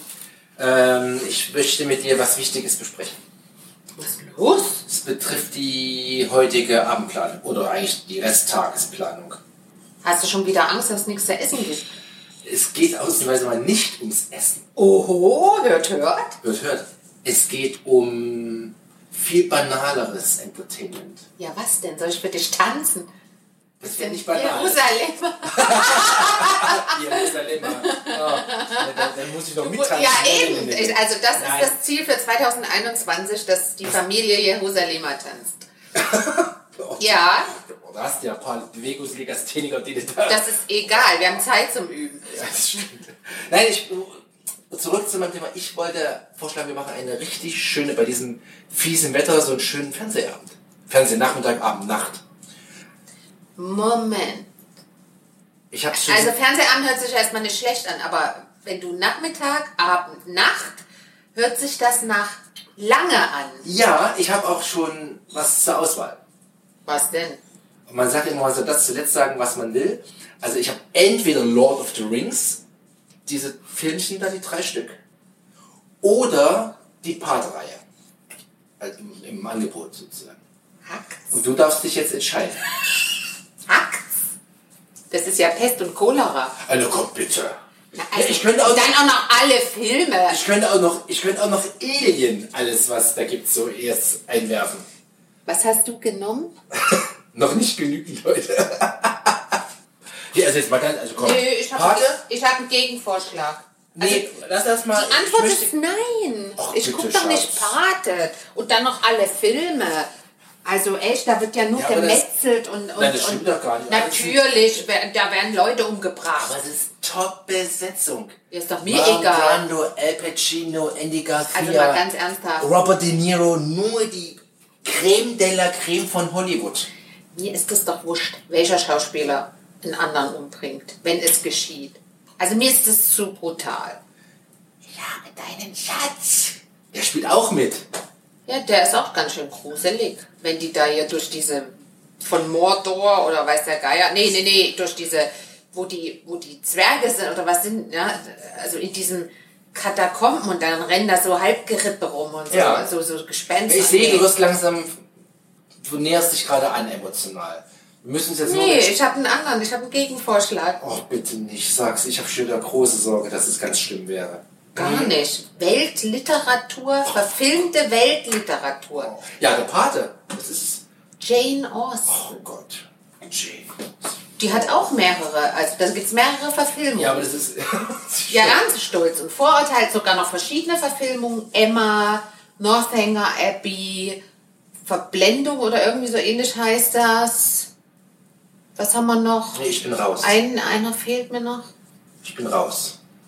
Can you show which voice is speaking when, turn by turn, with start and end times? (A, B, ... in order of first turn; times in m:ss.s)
0:00.6-0:03.2 A
0:04.0-0:04.8 B
0:04.9-0:09.4 A
0:10.0-0:11.9 B
0:12.4-0:14.6 A
0:14.8-0:16.4 B
0:16.4-0:21.2 A
0:21.4-0:23.1 B
0:23.8-0:24.9 A
0:23.8-0:35.6 B
0:25.5-0:31.7 A
0:36.0-0:41.4 A
0:37.0-0:37.5 B
0:40.3-0:42.9 B
0:42.3-0:52.2 A
0:53.6-0:54.5 B
0:55.7-0:56.3 A
0:55.9-1:00.8 B
1:01.4-1:03.7 B
1:03.6-1:06.2 A
1:06.9-1:07.4 B
1:07.9-1:12.6 A
1:13.3-1:15.0 A
1:16.0-1:17.8 A
1:18.8-1:20.4 A
1:20.8-1:21.3 B
1:21.3-1:22.6 A
1:23.7-1:24.1 B
1:25.1-1:26.6 B
1:26.6-1:27.6 A
1:27.9-1:30.4 B
1:28.1-1:29.0 A
1:30.3-1:34.9 A
1:35.5-1:36.5 B
1:36.7-1:39.6 A
1:40.3-1:42.2 A
1:41.2-1:44.3 B
1:44.0-1:45.7 A
1:44.9-1:50.1 B
1:46.6-1:47.8 A
1:50.6-1:56.6 B
1:51.7-1:52.2 A
1:53.0-1:54.5 A
1:56.3-2:02.0 A
1:58.5-1:59.6 B
2:01.5-2:02.7 B
2:02.6-2:06.9 A
2:07.3-2:14.0 B
2:14.9-2:16.6 B
2:16.9-2:17.8 A
2:18.4-2:34.4 B
2:32.5-2:32.9 A
2:33.7-2:35.0 A
2:35.8-2:38.9 A
2:38.4-2:40.8 B
2:40.8-2:45.2 A
2:44.8-2:49.1 B
2:49.0-2:50.8 A
2:51.2-2:52.4 B
2:52.1-2:54.8 A
2:54.4-2:57.3 B
2:56.9-2:58.7 A
2:58.3-3:04.2 B
3:04.8-3:07.7 B
3:08.8-3:09.6 B
3:09.5-3:10.4 A
3:10.2-3:11.7 B
3:12.2-3:13.0 A